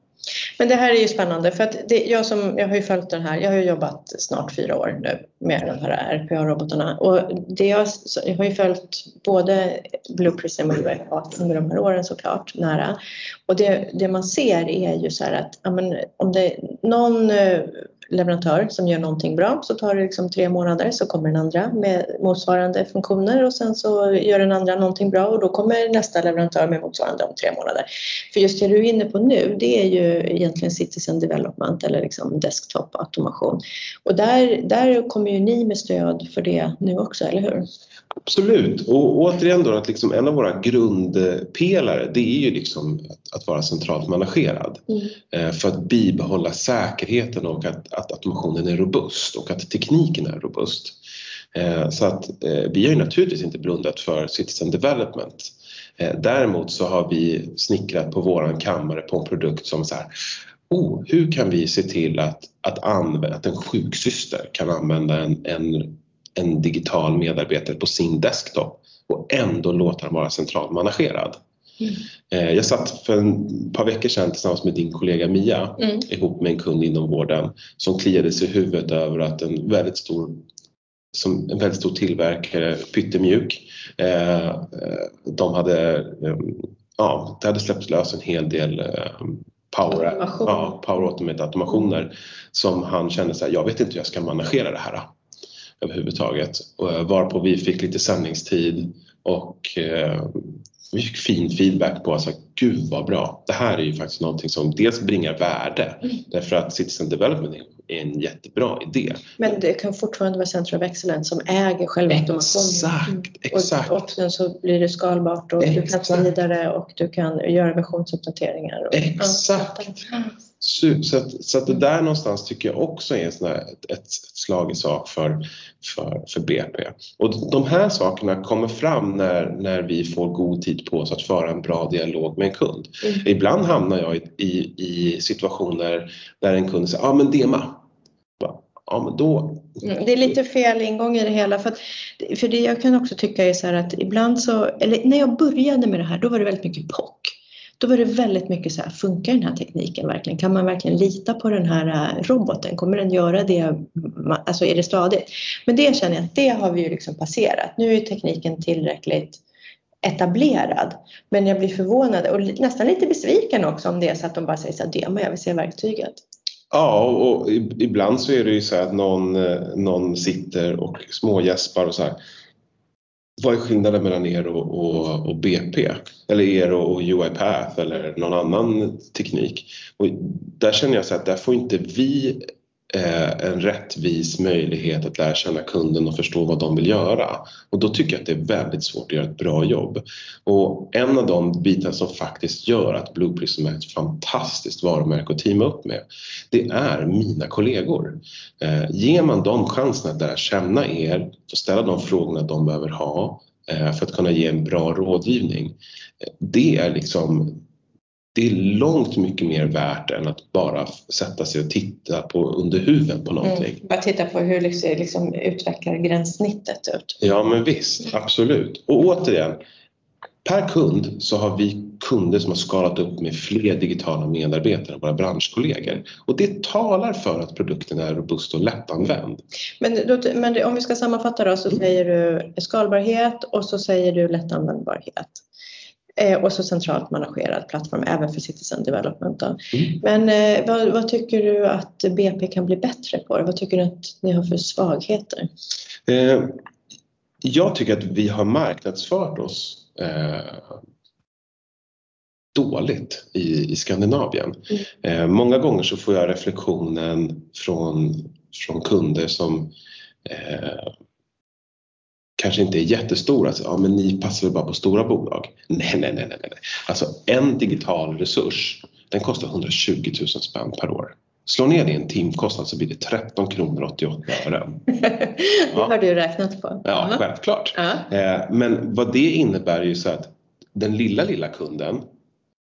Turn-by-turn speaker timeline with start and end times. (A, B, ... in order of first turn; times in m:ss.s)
0:00.6-0:37.6 A
0:38.2-0:51.0 B
0:51.5-1:00.1 B
1:00.7-1:11.4 B
1:12.3-1:20.4 B
1:21.1-1:35.1 B
1:29.9-1:30.7 A
1:35.8-1:49.4 B
1:49.4-2:00.3 A
1:52.1-1:54.0 B
1:55.6-1:56.3 B
1:58.9-2:00.1 B
2:00.6-2:17.8 B
2:18.4-2:19.8 B
2:19.8-2:39.4 A
2:40.0-2:46.2 A
2:46.7-2:52.2 B
2:53.4-3:27.6 B
3:28.3-3:33.8 B
3:33.4-3:37.2 A
3:37.2-3:39.6 B
3:40.4-3:49.4 B
3:49.8-3:55.4 A
3:56.2-4:05.5 A
4:06.1-4:06.6 B
4:07.4-4:10.8 B
4:12.5-4:19.7 B
4:20.2-4:20.9 B
4:22.4-4:34.9 B
4:34.9-4:37.2 A
4:36.8-4:42.0 B
4:37.7-4:38.0 A